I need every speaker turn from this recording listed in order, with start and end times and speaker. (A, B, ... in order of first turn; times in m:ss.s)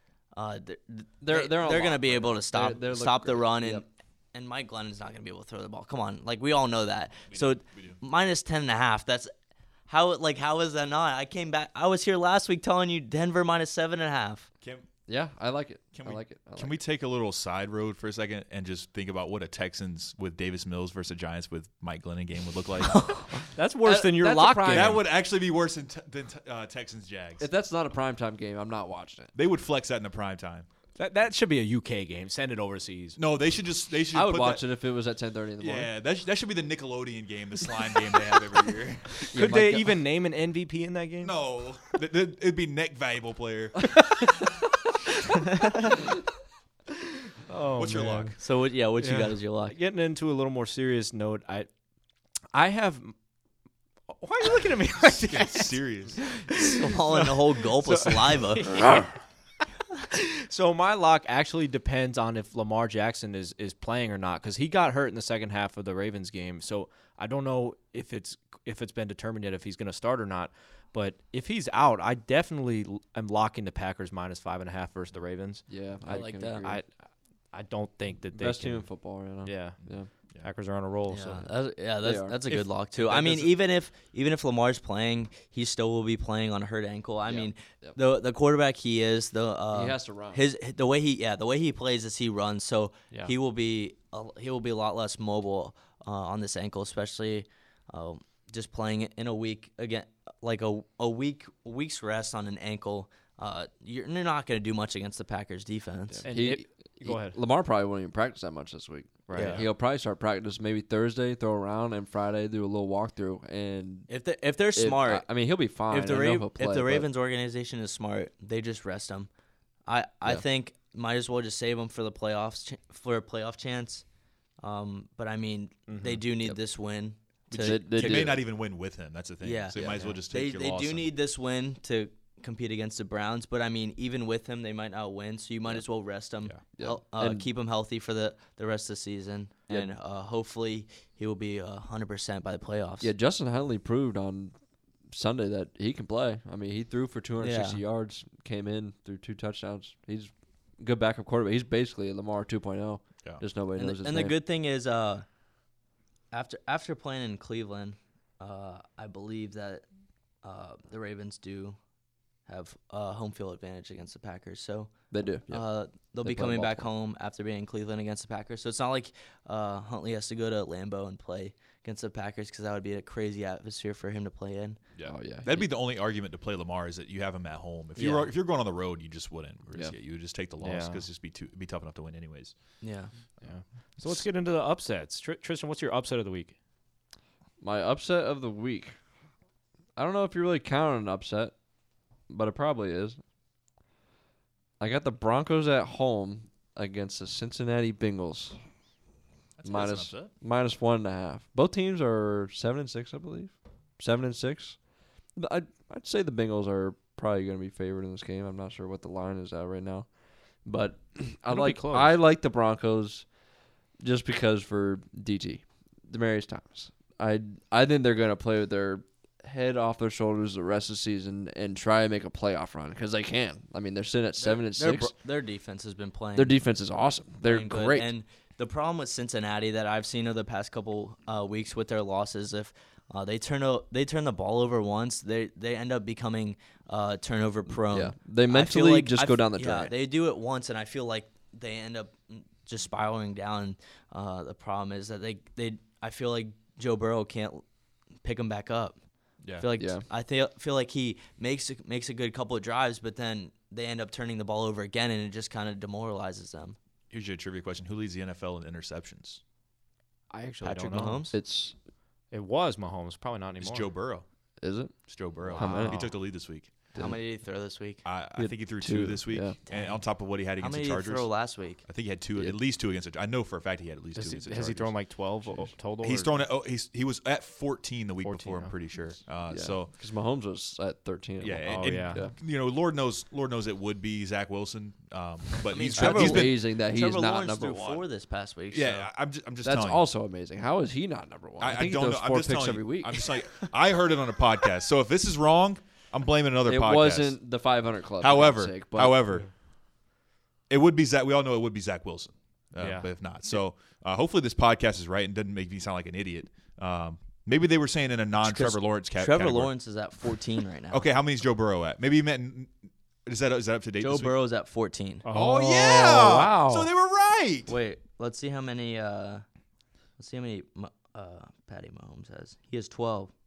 0:00.3-0:09.3 A
0:01.2-0:03.8 B
0:07.3-0:08.0 C
0:09.9-0:14.5 A
0:14.6-0:14.9 C
0:15.1-0:16.8 B
0:15.9-0:23.0 C
0:22.9-0:23.2 A
0:23.4-0:25.0 D
0:23.8-0:25.0 B
0:24.7-0:27.5 C
0:27.4-0:29.3 B
0:29.3-0:30.7 C
0:31.0-0:33.2 D
0:33.2-0:34.6 C
0:34.1-0:35.9 B
0:35.6-0:39.3 C
0:39.2-0:41.3 D
0:39.3-0:40.0 B
0:41.2-0:44.0 C
0:47.5-0:48.4 D
0:47.7-0:48.3 C
0:48.4-0:49.8 A
0:49.0-0:51.7 D
0:52.5-0:53.1 D
0:54.1-0:59.1 D
0:55.0-0:56.3 C
0:56.6-0:58.9 A
0:58.8-0:59.0 B
1:00.1-1:15.6 D
1:15.7-1:16.8 B
1:16.1-1:16.6 A
1:16.6-1:16.9 D
1:17.5-1:19.8 D
1:18.3-1:20.1 B
1:20.4-1:21.5 D
1:21.1-1:46.2 A
1:22.0-1:23.4 B
1:27.2-1:28.0 B
1:29.7-1:30.4 B
1:46.2-1:54.1 B
1:46.2-1:47.4 D
1:49.3-1:49.6 D
1:49.3-1:49.6 A
1:54.1-1:55.2 A
1:54.8-1:57.1 B
1:55.9-1:59.3 A
1:59.9-2:04.0 A
2:04.6-2:08.4 A
2:05.9-2:06.2 D
2:07.5-2:11.1 C
2:07.6-2:08.4 B
2:09.4-2:23.1 A
2:09.7-2:10.1 B
2:16.7-2:17.5 B
2:23.0-2:24.5 B
2:25.1-2:34.4 B
2:27.4-2:27.8 A
2:33.8-2:35.2 A
2:36.3-2:39.8 A
2:40.4-2:41.8 A
2:42.5-2:44.9 A
2:45.1-2:46.9 B
2:45.5-2:54.8 A
2:54.9-3:02.5 C
2:55.0-2:55.7 B
2:58.0-2:58.3 A
3:00.6-3:01.0 D
3:02.8-3:03.1 A
3:03.4-3:06.5 D
3:07.6-3:09.0 B
3:10.0-3:11.5 B
3:12.3-3:13.2 B
3:14.8-3:18.6 B
3:19.6-3:20.3 C
3:19.6-3:24.8 B
3:25.4-3:30.1 B
3:30.6-3:33.3 B
3:31.5-3:32.2 D
3:34.0-3:45.1 B
3:44.4-3:46.6 A
3:46.4-3:48.1 B
3:47.4-4:07.6 A
3:57.9-3:59.9 B
4:08.2-4:09.0 A
4:09.6-4:16.8 A
4:09.8-4:10.0 B
4:17.1-4:19.4 C
4:20.3-4:21.2 D
4:20.6-4:21.3 A
4:21.3-4:21.7 B
4:22.3-4:23.9 D
4:23.6-4:24.2 C
4:24.6-4:25.0 B
4:25.1-4:26.7 C
4:25.5-4:25.8 A
4:25.6-4:26.1 B
4:25.6-4:25.9 D
4:27.0-4:28.0 A
4:28.0-4:31.3 C
4:28.4-4:29.6 B
4:29.7-4:30.0 A
4:30.6-4:31.8 A
4:31.8-4:34.9 C
4:34.1-4:36.4 D
4:35.5-4:39.9 C
4:38.2-4:38.7 D
4:39.5-4:42.3 B
4:41.4-4:46.6 C
4:41.7-4:42.2 D
4:45.7-4:49.1 A
4:45.9-4:48.0 B
4:48.7-4:50.0 C
4:49.6-4:53.2 B
4:51.6-4:57.4 C
4:56.6-4:59.2 B
4:58.2-4:59.5 C
5:00.7-5:09.7 C
5:02.8-5:03.1 D
5:08.4-5:11.0 A
5:10.9-5:12.7 C
5:13.2-5:14.3 C
5:14.0-5:15.2 A
5:15.2-5:16.9 D
5:15.3-5:17.7 C
5:17.7-5:19.4 A
5:20.2-5:23.3 A